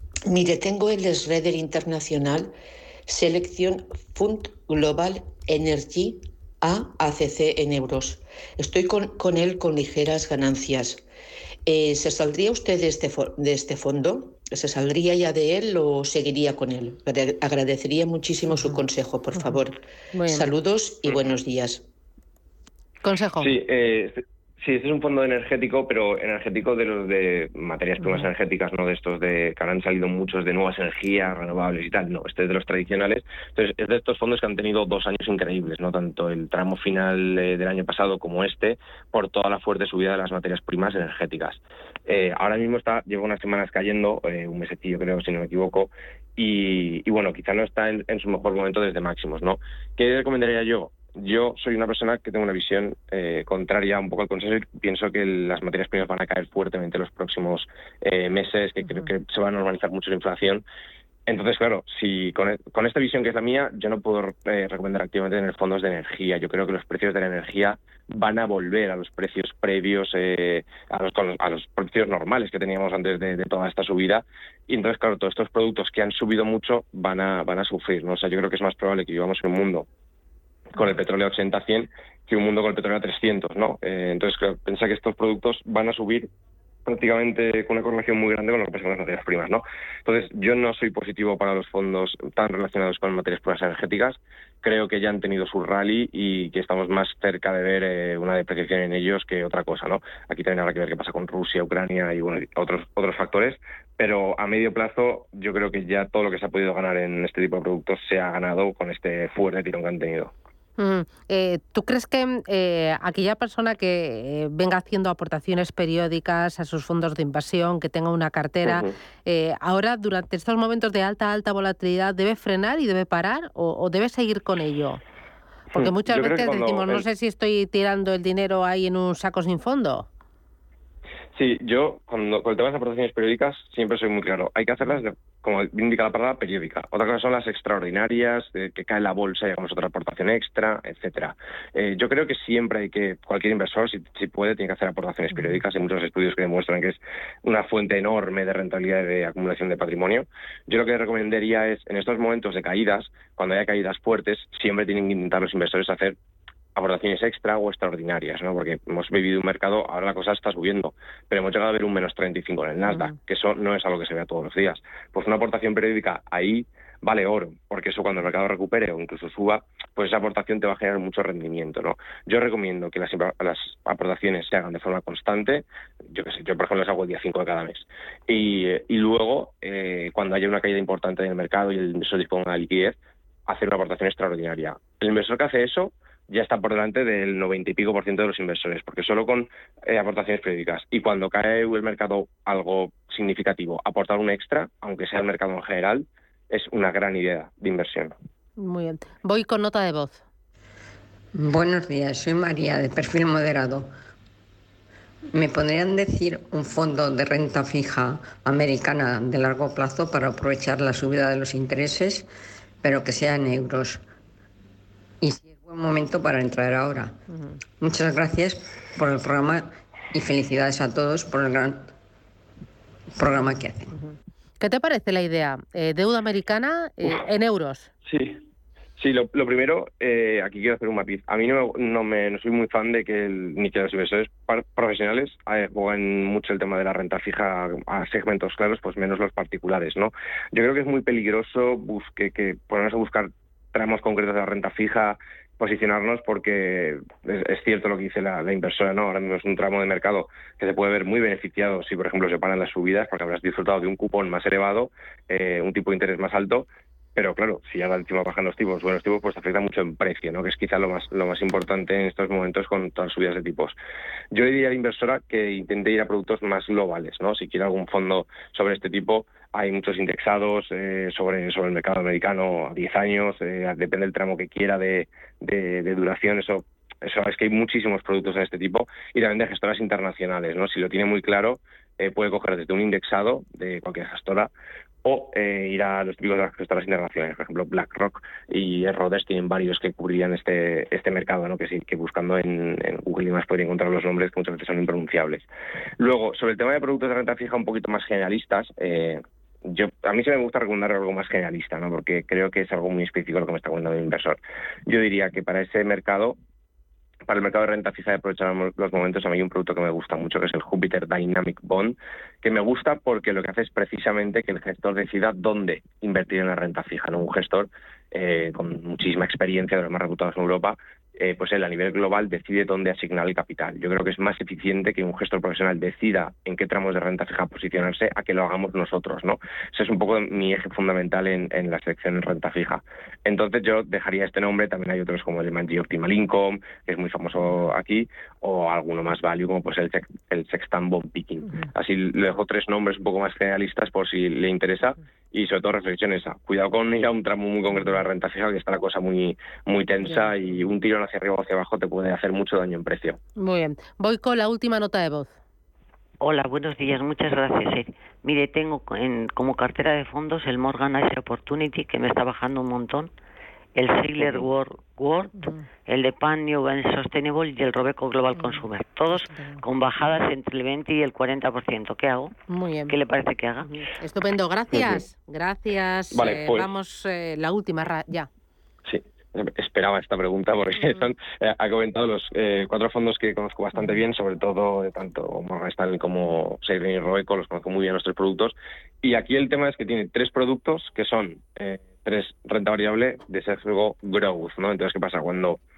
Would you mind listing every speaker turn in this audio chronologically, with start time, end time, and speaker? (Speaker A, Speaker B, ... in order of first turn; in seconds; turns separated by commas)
Speaker A: 0.3-2.5, Speaker A: 3.1-11.0, Speaker A: 11.7-19.7, Speaker B: 18.5-18.8, Speaker B: 19.4-19.6, Speaker B: 20.1-20.5, Speaker A: 20.3-21.8, Speaker B: 23.0-23.5, Speaker C: 23.4-60.6, Speaker B: 28.0-28.3, Speaker C: 61.3-79.9, Speaker C: 80.7-86.3, Speaker C: 86.8-110.3, Speaker B: 110.8-125.0, Speaker C: 118.7-118.9, Speaker C: 125.7-127.0, Speaker B: 125.7-130.1, Speaker C: 131.4-156.2, Speaker C: 156.8-198.1, Speaker B: 162.9-163.2, Speaker B: 198.6-200.2, Speaker D: 201.4-203.9, Speaker D: 205.3-212.3, Speaker D: 212.8-214.0, Speaker D: 215.2-217.2, Speaker D: 217.8-221.9, Speaker D: 223.2-223.9, Speaker B: 224.0-227.9, Speaker C: 228.0-228.4, Speaker C: 229.0-263.8, Speaker C: 264.3-284.5, Speaker C: 285.1-295.5, Speaker C: 296.0-306.4, Speaker C: 307.3-353.2, Speaker B: 350.1-350.3, Speaker B: 353.4-355.3, Speaker E: 356.2-363.1, Speaker E: 363.8-372.3, Speaker C: 364.2-364.5, Speaker B: 365.4-365.7, Speaker B: 368.4-369.6, Speaker B: 372.5-372.9, Speaker E: 372.9-373.8, Speaker B: 373.6-378.3, Speaker C: 374.7-375.0, Speaker C: 376.1-376.7, Speaker C: 378.9-395.6